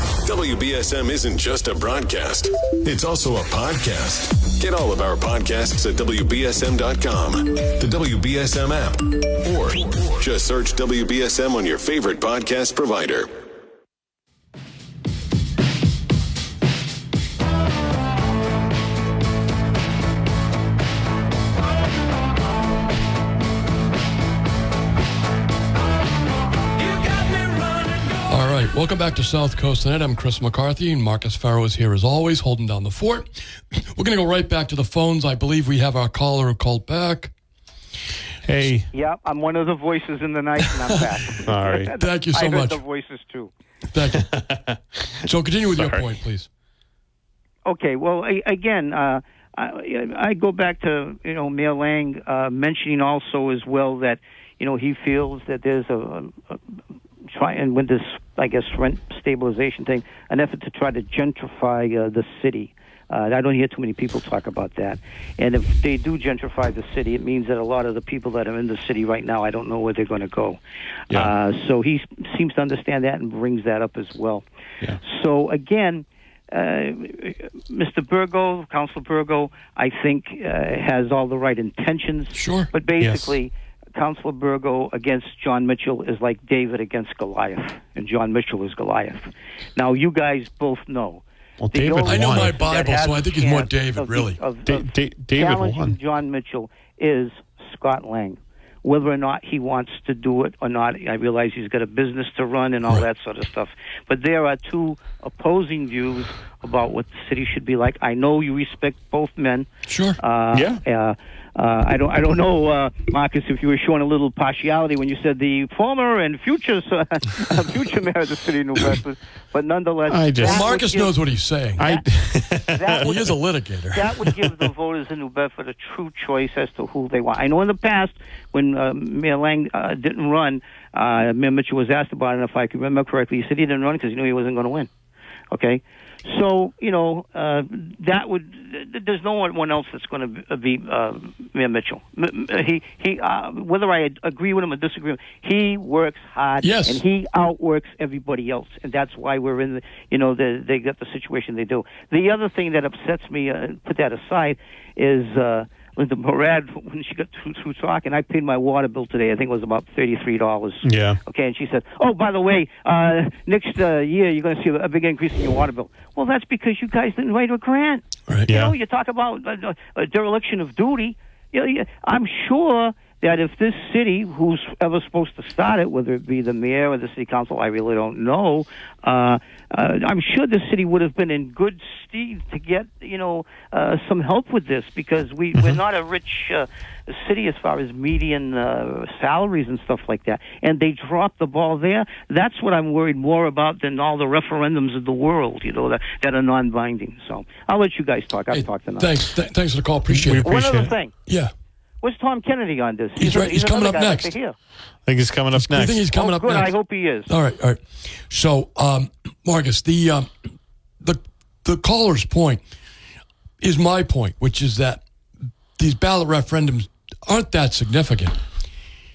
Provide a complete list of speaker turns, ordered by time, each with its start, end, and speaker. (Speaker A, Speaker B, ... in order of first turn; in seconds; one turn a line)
Speaker A: 0.1-13.3
Speaker B: 28.1-37.3
Speaker C: 38.5-38.9
Speaker D: 38.9-43.5
Speaker C: 41.5-41.9
Speaker B: 42.0-42.8
Speaker B: 43.9-44.4
Speaker C: 44.1-44.8
Speaker B: 45.2-46.5
Speaker C: 45.7-46.0
Speaker D: 47.6-56.6
Speaker D: 57.3-70.6
Speaker D: 71.1-74.4
Speaker D: 75.0-109.7
Speaker B: 82.3-82.7
Speaker C: 83.0-83.3
Speaker C: 91.6-92.5
Speaker B: 92.1-94.4
Speaker C: 94.7-96.0
Speaker B: 109.9-110.2
Speaker D: 110.2-121.2
Speaker C: 110.5-110.8
Speaker C: 120.1-120.6
Speaker B: 120.4-121.8
Speaker D: 121.8-122.0
Speaker C: 121.8-123.0
Speaker D: 122.7-123.3
Speaker B: 122.9-124.2
Speaker D: 123.9-134.9
Speaker D: 135.5-199.2
Speaker B: 146.6-147.0
Speaker C: 160.8-161.2
Speaker C: 168.5-168.8
Speaker B: 198.5-200.5
Speaker C: 200.1-200.9
Speaker D: 200.4-201.1
Speaker B: 201.3-201.5
Speaker D: 202.0-204.6
Speaker B: 203.2-204.4
Speaker C: 205.1-206.0
Speaker B: 205.5-206.7
Speaker D: 206.1-207.3
Speaker B: 207.3-210.3
Speaker B: 211.0-212.6
Speaker B: 213.6-215.0
Speaker B: 215.8-218.4